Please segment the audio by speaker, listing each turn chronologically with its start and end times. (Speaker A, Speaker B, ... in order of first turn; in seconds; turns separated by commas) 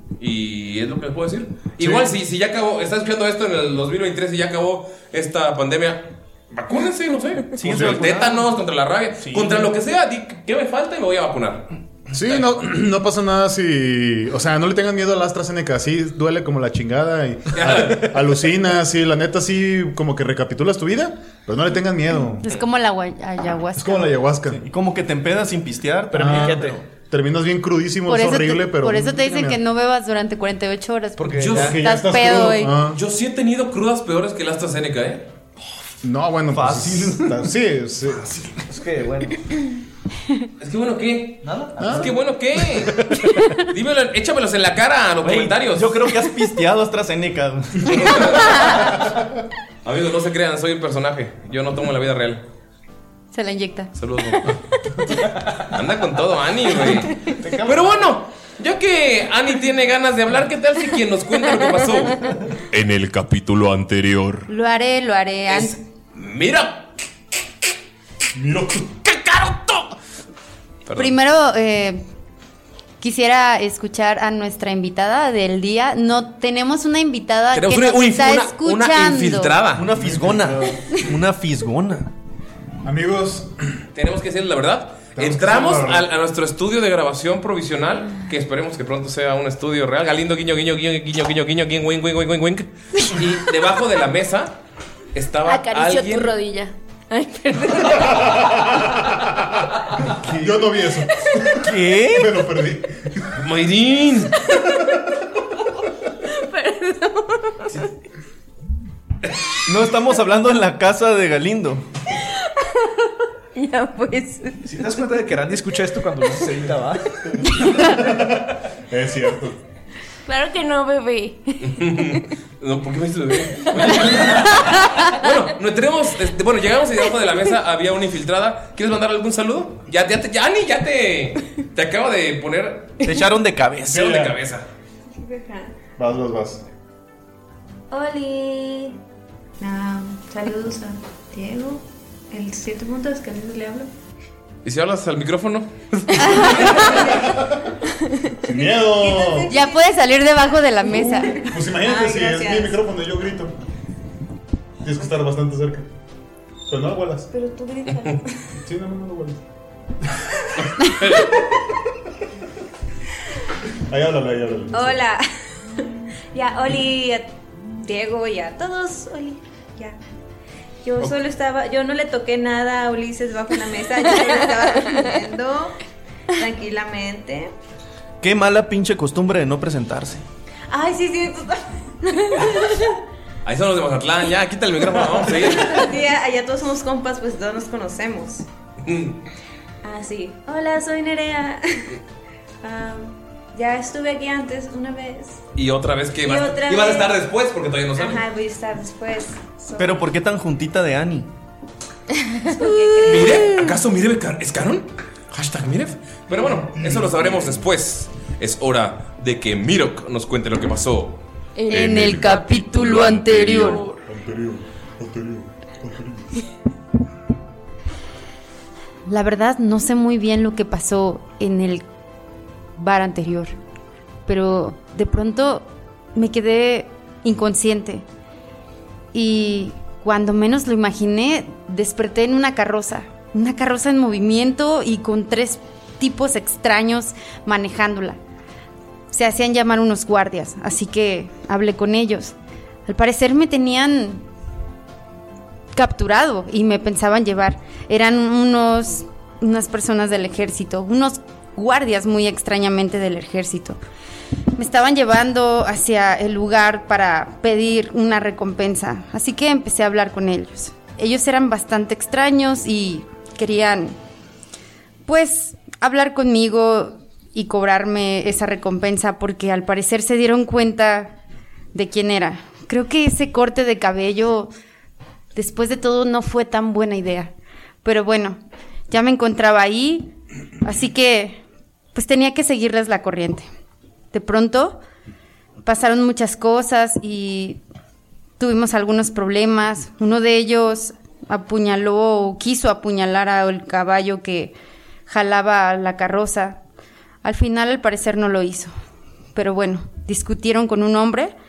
Speaker A: 0.2-12.5, Speaker B: 7.6-8.5, Speaker C: 7.6-8.1, Speaker B: 9.2-9.7, Speaker C: 12.1-22.4, Speaker A: 17.5-18.2, Speaker D: 22.4-24.1, Speaker C: 23.8-24.6, Speaker B: 24.5-26.8, Speaker E: 26.1-26.8, Speaker C: 26.1-29.6, Speaker D: 28.1-32.7, Speaker E: 31.2-31.8, Speaker A: 31.4-31.8, Speaker C: 31.5-33.0, Speaker A: 32.8-35.3, Speaker C: 36.0-38.4, Speaker B: 36.5-37.2, Speaker E: 38.7-39.4, Speaker A: 40.6-43.0, Speaker E: 41.4-42.1, Speaker C: 41.8-42.1, Speaker A: 43.6-46.0, Speaker B: 45.2-48.6, Speaker A: 47.9-49.1, Speaker A: 49.9-52.4, Speaker D: 53.3-53.9, Speaker A: 54.0-54.6, Speaker A: 55.6-62.3, Speaker E: 57.4-57.9, Speaker F: 62.7-64.5, Speaker D: 64.5-65.8, Speaker A: 65.5-66.9, Speaker A: 69.1-69.9, Speaker A: 70.9-71.2, Speaker D: 71.0-72.0, Speaker D: 73.0-79.5, Speaker A: 77.5-79.9, Speaker B: 79.7-82.1, Speaker C: 79.9-80.8, Speaker C: 82.8-83.5, Speaker A: 84.0-94.6, Speaker C: 85.2-86.1, Speaker A: 95.1-96.3, Speaker G: 95.5-98.8, Speaker C: 100.3-103.0, Speaker B: 101.7-102.3, Speaker E: 101.7-102.1, Speaker A: 103.3-104.4, Speaker G: 106.3-107.7, Speaker B: 109.7-111.8, Speaker G: 113.5-114.7, Speaker E: 114.7-117.2, Speaker G: 117.7-118.1, Speaker C: 117.8-118.3, Speaker C: 118.9-119.6, Speaker G: 120.3-122.2, Speaker A: 121.6-133.0, Speaker G: 123.6-125.1, Speaker B: 133.0-134.1, Speaker C: 133.9-134.4, Speaker A: 133.9-134.7, Speaker H: 135.1-135.7, Speaker C: 136.0-136.6, Speaker H: 137.9-139.0, Speaker H: 139.6-143.9, Speaker A: 144.7-146.7, Speaker H: 146.3-147.4, Speaker C: 148.4-149.5, Speaker H: 148.5-149.8, Speaker D: 149.5-151.4, Speaker H: 151.0-152.8, Speaker C: 151.4-153.6, Speaker C: 154.8-155.9, Speaker C: 156.7-157.3, Speaker H: 157.3-158.2, Speaker C: 158.6-159.4, Speaker A: 160.8-161.2, Speaker C: 163.9-165.0, Speaker H: 164.7-165.3, Speaker H: 166.3-170.0, Speaker H: 170.8-175.8, Speaker H: 176.4-177.5, Speaker B: 178.2-180.2, Speaker H: 180.7-183.0, Speaker A: 183.4-185.9, Speaker H: 185.3-188.5, Speaker A: 188.8-189.2, Speaker H: 189.8-191.9, Speaker H: 192.6-195.4, Speaker A: 195.6-198.2, Speaker H: 196.2-197.2, Speaker H: 198.0-200.0, Speaker B: 199.8-201.3, Speaker H: 202.5-203.5, Speaker A: 203.0-211.2, Speaker C: 206.8-207.5, Speaker G: 211.6-212.6, Speaker D: 211.7-213.8, Speaker F: 211.7-213.8, Speaker G: 213.6-214.0, Speaker C: 214.1-216.3, Speaker D: 219.1-221.8, Speaker D: 222.8-223.5, Speaker D: 224.3-228.1, Speaker D: 229.1-238.2, Speaker D: 239.1-242.3, Speaker D: 242.9-244.2, Speaker D: 245.7-253.8, Speaker D: 254.6-264.0, Speaker D: 265.1-271.2, Speaker D: 271.7-274.5, Speaker D: 275.4-277.3, Speaker D: 277.8-281.4, Speaker D: 281.9-283.4, Speaker D: 284.1-284.8, Speaker D: 285.6-287.6, Speaker D: 288.4-294.6, Speaker D: 295.1-296.6, Speaker D: 297.2-298.7, Speaker D: 299.4-301.3